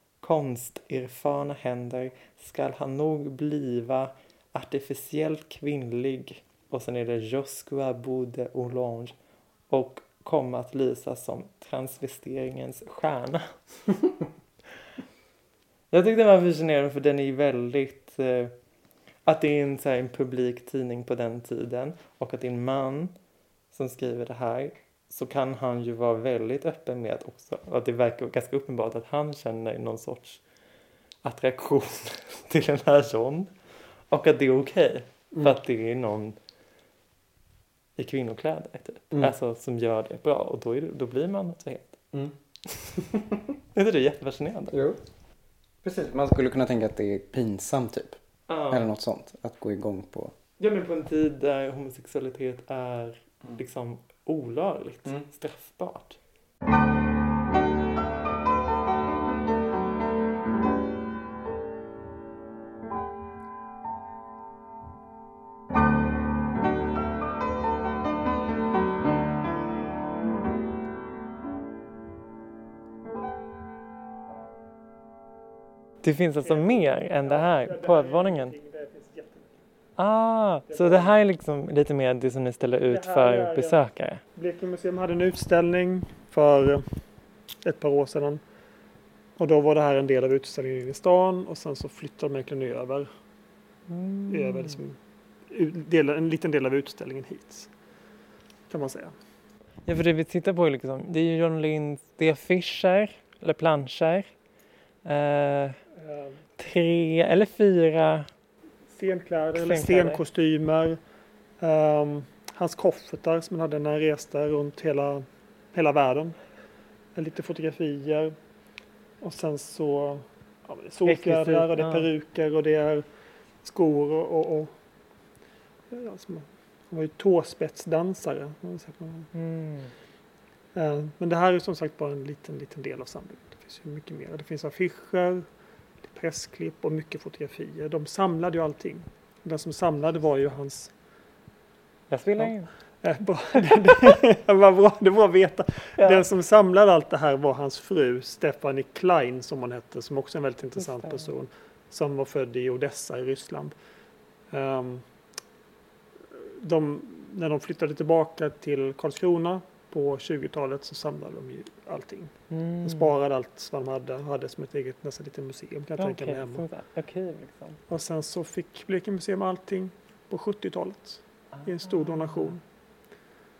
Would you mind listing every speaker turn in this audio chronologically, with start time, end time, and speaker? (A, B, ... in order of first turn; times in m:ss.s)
0:00.2-0:09.2 A
0:09.7-0:13.6 A
0:15.9-0:18.5 A
0:19.2-0:23.2 A
0:23.7-0:30.4 A
0:31.2-0:33.6 A
0:34.1-0:36.4 A
0:38.0-0:42.1 A
0:42.1-0:43.3 B
0:43.7-0:44.8 A
0:44.7-0:45.0 B
0:45.8-0:48.2 B
0:48.5-0:48.9 A
0:48.7-0:50.3 B
0:50.6-0:56.2 A
1:16.0-1:18.6 A
1:16.4-1:19.6 C
1:20.0-1:24.2 A
1:20.7-1:21.1 C
1:22.9-1:23.8 C
1:24.4-1:26.9 C
1:27.6-1:28.4 C
1:29.4-1:33.1 C
1:33.9-1:34.8 A
1:34.3-1:37.7 C
1:38.7-1:39.2 C
1:39.8-1:44.3 A
1:45.0-1:45.8 A
1:45.9-1:46.4 C
1:46.6-1:48.3 A
1:48.9-1:51.0 C
1:49.6-1:50.2 A
1:51.6-1:56.4 C
1:57.2-1:58.4 C
1:59.2-2:03.0 C
2:01.0-2:02.1 A
2:03.6-2:04.7 C
2:05.9-2:09.3 C
2:09.3-2:09.9 A
2:10.7-2:15.5 C
2:16.1-2:20.9 C
2:22.1-2:22.7 A
2:22.4-2:33.8 C
2:26.0-2:26.2 A
2:30.8-2:31.3 A
2:34.5-2:35.1 C
2:36.3-2:46.6 C
2:42.5-2:43.1 A
2:46.0-2:47.8 A
2:47.9-2:52.6 C
2:51.5-2:52.6 A